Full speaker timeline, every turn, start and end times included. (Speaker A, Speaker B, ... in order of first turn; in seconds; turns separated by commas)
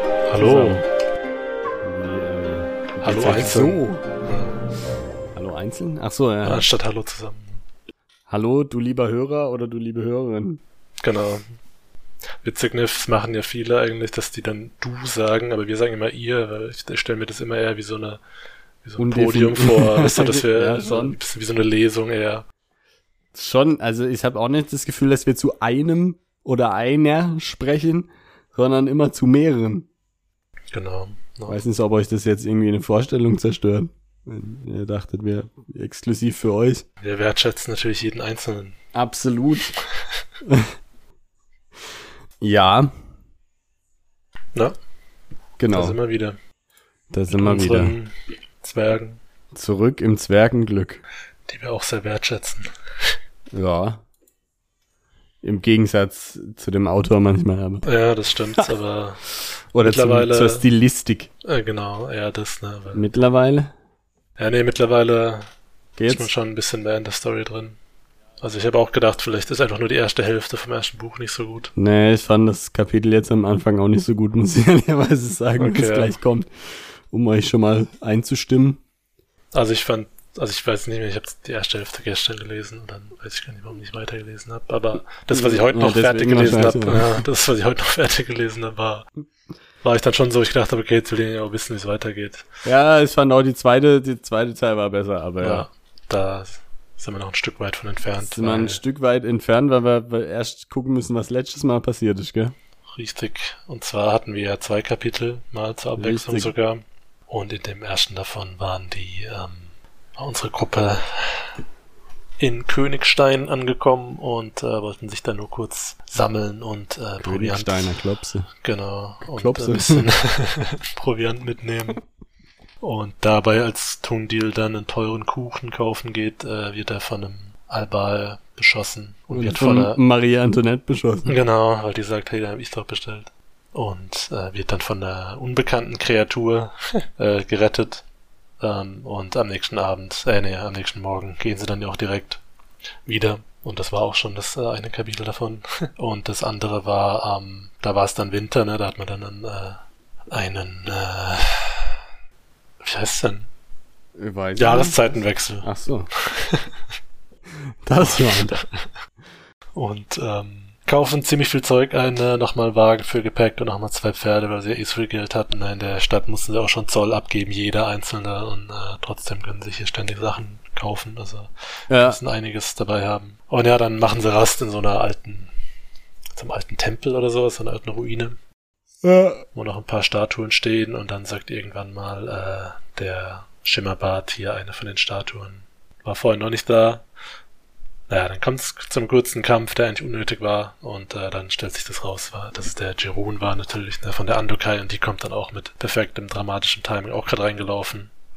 Speaker A: 0.3-0.8, Speaker B: 0.4-0.8, Speaker B: 1.8-4.0, Speaker A: 3.0-4.6, Speaker B: 5.3-6.7, Speaker A: 6.4-7.6, Speaker B: 8.3-10.6, Speaker A: 11.0-11.6, Speaker A: 12.4-18.2, Speaker A: 18.8-22.4, Speaker B: 19.0-21.2, Speaker B: 23.4-29.9, Speaker A: 30.7-31.6, Speaker B: 31.5-36.9, Speaker A: 37.0-38.8, Speaker B: 38.9-39.8, Speaker B: 42.4-42.9, Speaker B: 45.6-46.0, Speaker A: 45.7-46.4, Speaker B: 47.1-48.0, Speaker A: 47.3-49.2, Speaker B: 49.5-51.0, Speaker A: 51.5-53.2, Speaker B: 53.5-54.0, Speaker B: 55.4-57.9, Speaker A: 57.9-60.6, Speaker B: 59.7-61.3, Speaker A: 61.4-63.0, Speaker B: 62.9-63.7, Speaker A: 64.4-65.5, Speaker B: 66.0-66.3, Speaker A: 66.1-67.8, Speaker A: 68.4-71.7, Speaker B: 71.8-78.8, Speaker A: 75.6-76.1, Speaker A: 79.5-89.1, Speaker B: 85.3-87.2, Speaker A: 89.8-92.5, Speaker B: 92.7-95.7, Speaker A: 95.4-98.8, Speaker B: 98.2-102.5, Speaker A: 102.9-111.5, Speaker B: 106.0-106.5, Speaker A: 112.4-117.9, Speaker B: 117.2-118.5, Speaker A: 118.6-122.0, Speaker B: 119.3-120.1, Speaker A: 122.8-130.0, Speaker B: 129.3-131.4, Speaker A: 131.3-138.1, Speaker A: 138.6-142.4, Speaker A: 143.1-152.0, Speaker A: 152.8-153.5, Speaker B: 154.2-155.0, Speaker A: 154.6-156.7, Speaker B: 155.6-156.1, Speaker B: 157.8-158.6, Speaker A: 158.0-158.9, Speaker A: 159.8-175.5, Speaker B: 171.9-172.2, Speaker A: 176.3-178.4, Speaker B: 179.0-179.4, Speaker A: 179.6-187.1, Speaker A: 188.1-198.1